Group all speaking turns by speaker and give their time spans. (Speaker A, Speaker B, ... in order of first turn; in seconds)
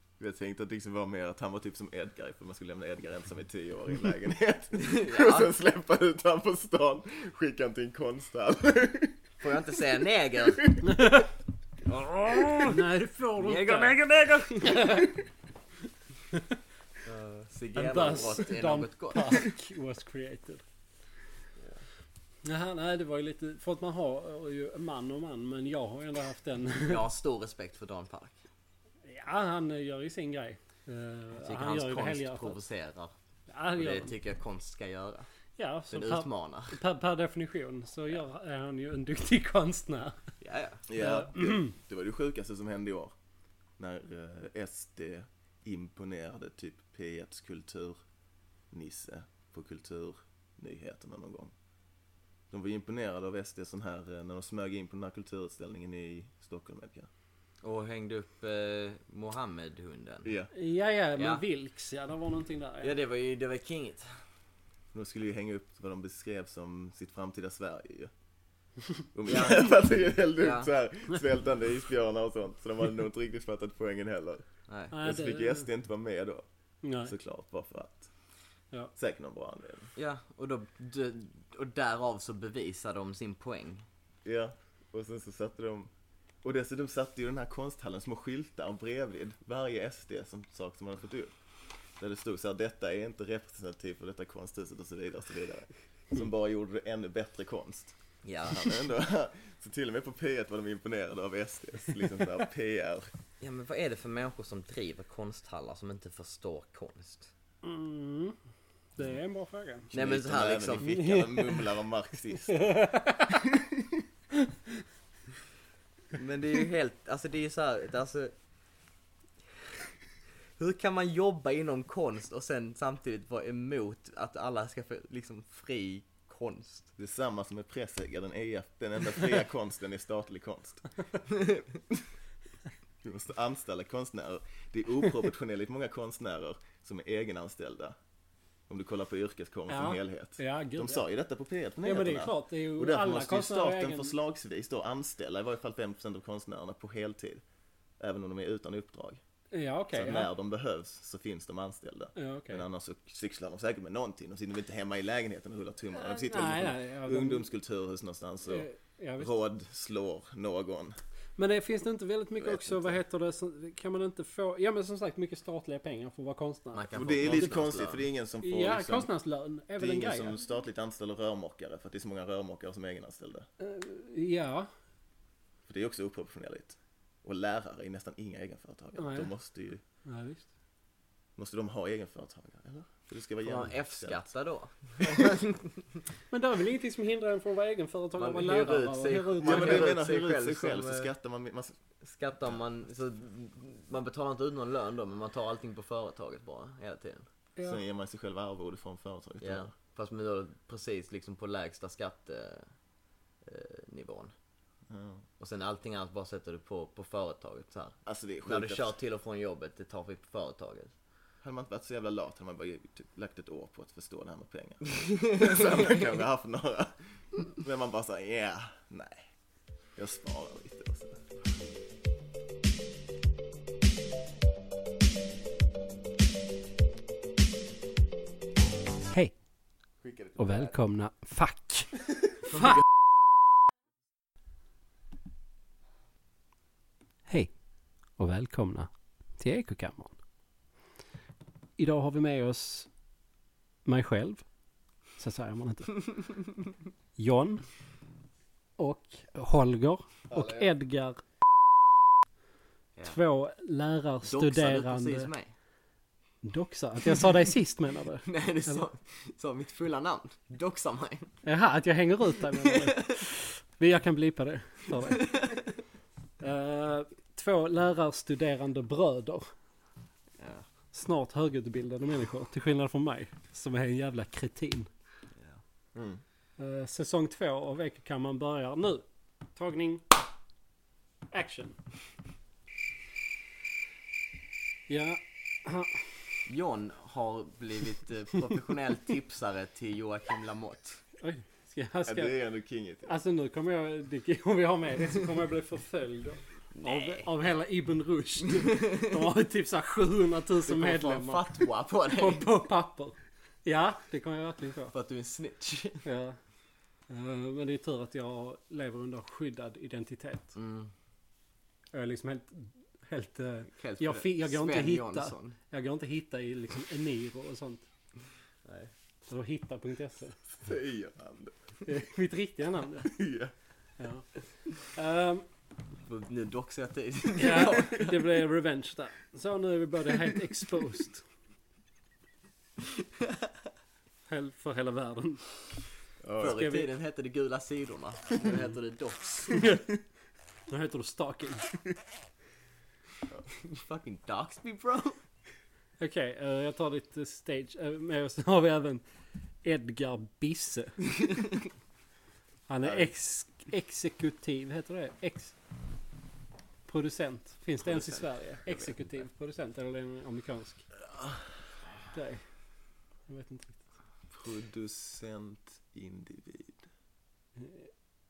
Speaker A: 0.2-9.2, 10.6-10.9, 40.9-43.1, 43.8-48.0, 48.7-51.5, 52.5-57.1, 60.2-60.5, 64.9-68.1, 69.1-74.5, 75.0-76.5, 77.0-78.1, 79.0-79.9, 84.2-85.9, 86.4-91.3, 92.0-103.1, 109.9-112.6, 127.0-130.9, 133.0-138.0, 138.7-147.4, 148.0-149.2, 149.9-158.7, 159.2-161.0, 162.4-163.0, 166.9-169.1, 169.8-173.5, 175.7-179.8, 181.4-184.2, 189.4-191.8, 197.6-199.7, 204.9-205.2, 208.1-208.9, 211.4-217.0, 217.5-219.3, 220.0-221.2, 230.0-230.8, 250.3-250.7, 275.9-276.2, 292.1-293.2, 320.5-321.6, 323.1-323.5, 336.2-336.7, 352.8-353.1, 364.3-366.8
Speaker B: 4.8-5.5, 9.4-10.7, 11.8-12.8, 13.4-15.1, 17.1-19.5, 26.8-28.4, 31.4-33.1, 33.7-35.3, 35.9-36.8, 40.4-40.9, 57.6-60.3, 61.2-61.4, 62.8-64.2, 69.3-69.7, 70.4-70.7, 74.7-75.0, 80.0-83.8, 98.2-98.9, 103.4-107.3, 109.9-111.0, 116.1-118.3, 120.6-126.9, 166.7-168.1, 183.4-186.0, 188.2-191.1, 192.0-197.2, 199.4-202.7, 203.4-204.3, 205.4-210.9, 254.3-255.5, 258.2-261.3, 262.6-263.3, 265.2-265.6, 270.4-270.7, 286.5-291.0, 296.8-297.3, 300.7-302.5, 304.9-306.0, 310.6-310.9, 313.8-315.6, 318.7-318.9, 326.1-328.3, 336.4-339.7, 343.6-345.2, 357.9-359.0
Speaker C: 10.8-11.3, 12.7-14.0, 14.6-15.2, 16.3-16.6, 17.8-20.6, 22.4-27.0, 29.1-32.6, 33.5-34.1, 35.6-40.2, 41.0-41.7, 60.5-62.9, 74.9-75.7, 76.8-77.1, 107.6-108.4, 109.0-109.9, 110.8-111.6, 112.5-113.3, 139.7-141.1, 141.8-144.1, 149.5-150.3, 152.2-152.6, 155.9-157.5, 158.5-159.3, 161.4-167.5, 168.4-170.4, 173.6-174.7, 179.0-179.3, 180.1-180.5, 186.3-189.9, 230.4-231.9, 237.3-237.5, 238.2-240.2, 241.8-242.9, 243.8-244.4, 245.2-246.0, 247.2-247.7, 248.8-251.2, 253.1-255.3, 256.4-258.9, 261.4-265.3, 266.4-269.5, 270.9-274.9, 276.6-280.0, 281.3-281.8, 284.9-286.1, 291.2-292.4, 293.1-301.4, 302.2-304.9, 306.1-306.4, 307.1-310.5, 311.9-317.9, 319.3-320.4, 321.9-323.2, 324.0-325.4, 327.4-331.2, 334.3-335.5, 336.4-336.9, 339.6-339.9, 340.7-341.7, 346.0-349.0, 349.6-351.1, 352.7-355.6, 356.9-360.8, 362.1-362.4, 363.3-363.9, 367.6-367.9